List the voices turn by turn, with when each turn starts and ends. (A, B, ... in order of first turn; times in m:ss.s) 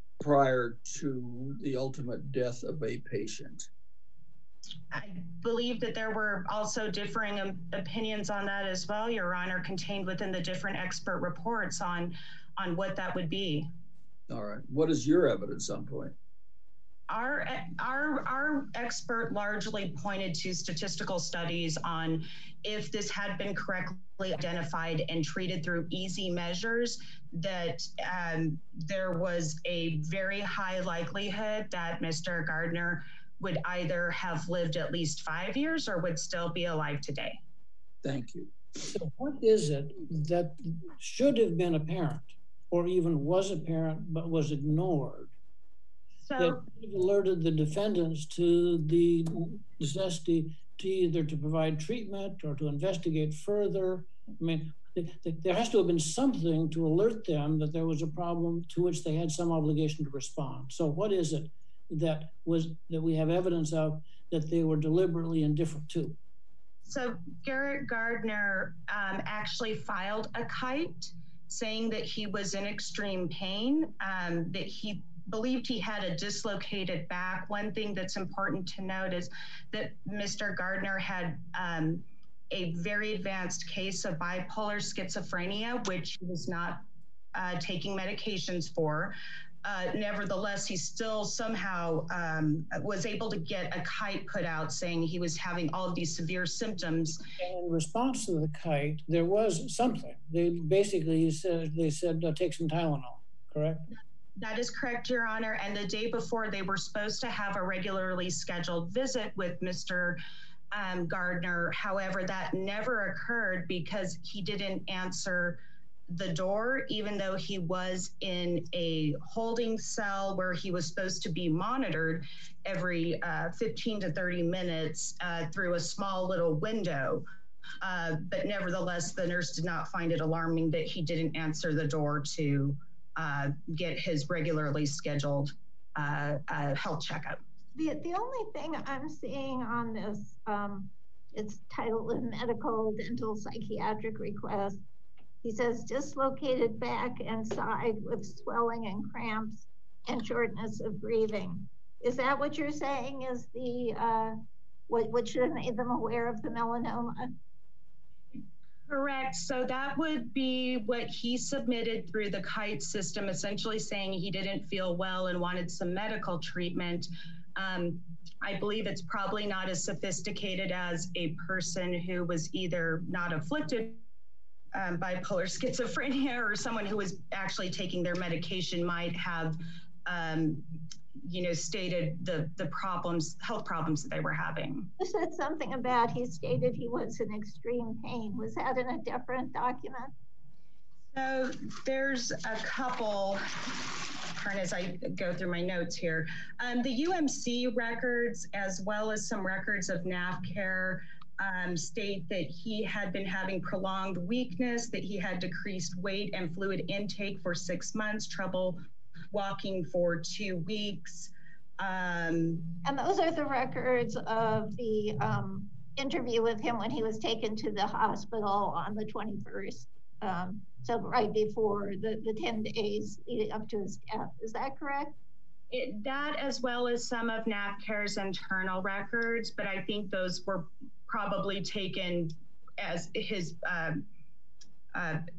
0:00.2-0:03.7 A
0:04.9-0:13.7 B
0:14.3-0:16.1 A
0:17.1-0:37.4 B
0:38.0-0:38.5 A
0:38.8-0:45.3 C
0:46.2-0:46.6 B
0:46.4-1:06.2 C
1:06.8-1:26.8 B
1:27.3-1:37.2 B
1:37.4-1:43.8 C
1:44.4-1:50.2 B
1:50.7-2:07.2 B
2:07.8-2:17.4 B
2:17.8-2:24.8 D
2:25.4-2:37.4 D
2:38.9-2:54.0 B
2:54.7-3:00.7 B
3:01.2-3:04.9 B
3:05.0-3:10.1 D
3:11.1-3:28.8 B
3:29.3-3:32.7 B
3:32.8-3:45.2 D
3:45.7-3:54.0 B
3:54.9-3:55.2 B